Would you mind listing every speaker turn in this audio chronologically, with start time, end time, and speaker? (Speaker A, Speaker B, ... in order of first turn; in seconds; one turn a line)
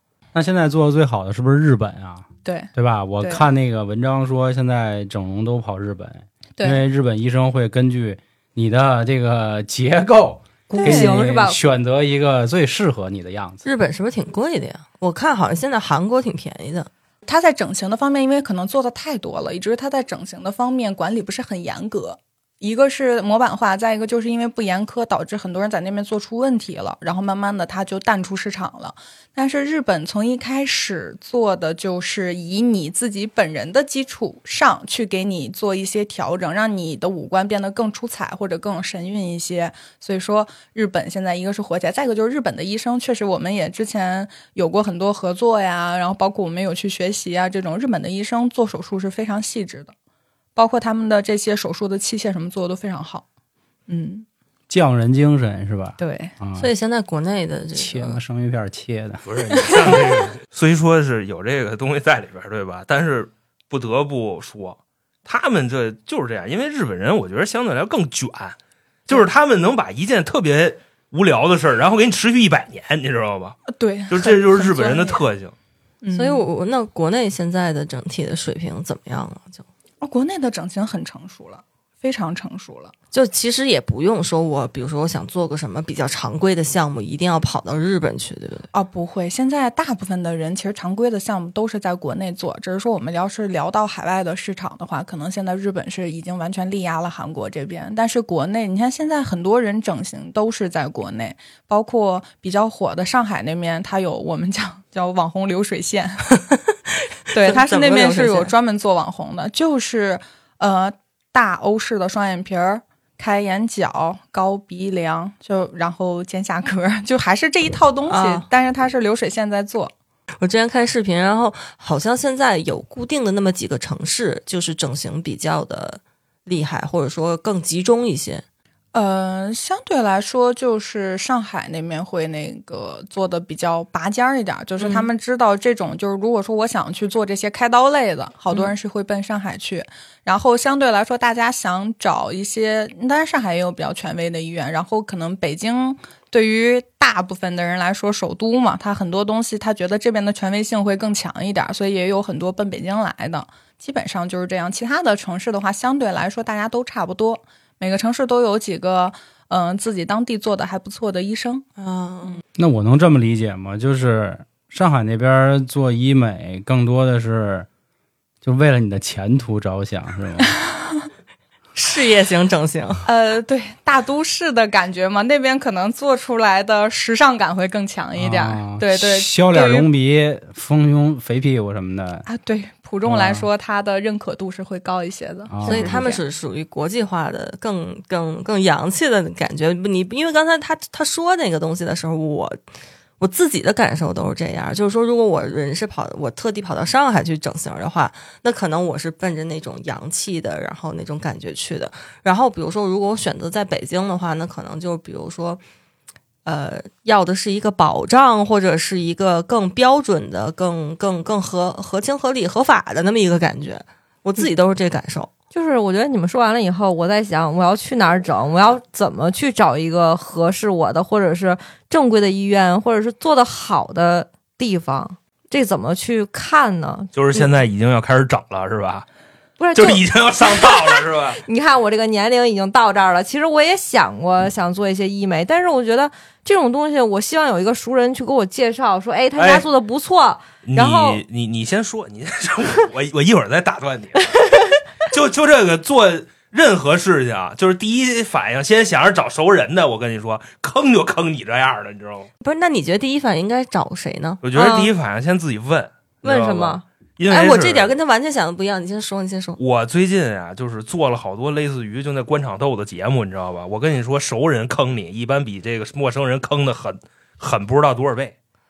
Speaker A: 0.3-13.7
Speaker B: 2.4-3.4
Speaker C: 10.7-11.6
Speaker B: 10.8-11.2
Speaker D: 13.6-16.9
Speaker B: 17.3-49.9
Speaker B: 50.6-53.2
Speaker B: 53.9-54.3
Speaker A: 54.7-56.7
Speaker B: 56.0-56.3
Speaker D: 56.6-58.2
Speaker A: 57.8-59.9
Speaker E: 59.2-73.6
Speaker B: 73.7-75.2
Speaker E: 74.1-75.5
Speaker B: 76.0-76.4
Speaker D: 76.1-79.6
Speaker B: 80.0-82.9
Speaker D: 83.1-88.7
Speaker B: 88.7-106.3
Speaker B: 107.3-119.9
Speaker D: 107.4-108.5
Speaker D: 118.1-118.5
Speaker D: 120.4-128.4
Speaker B: 128.9-161.7
Speaker D: 134.8-135.1
Speaker D: 161.8-162.4
Speaker A: 162.6-167.7
Speaker A: 168.4-170.5
Speaker D: 171.8-173.0
Speaker B: 173.1-179.9
Speaker A: 178.2-182.3
Speaker B: 182.3-186.2
Speaker A: 183.1-183.5
Speaker A: 185.5-186.0
Speaker D: 185.7-192.6
Speaker D: 193.2-205.6
Speaker D: 206.5-215.3
Speaker C: 215.5-227.5
Speaker E: 227.1-229.1
Speaker C: 229.6-241.2
Speaker E: 229.8-231.4
Speaker E: 239.4-239.7
Speaker E: 240.7-244.4
Speaker E: 245.1-252.3
Speaker D: 252.4-254.5
Speaker E: 254.4-257.9
Speaker C: 254.5-254.9
Speaker C: 256.2-256.9
Speaker D: 257.3-259.6
Speaker E: 259.6-268.3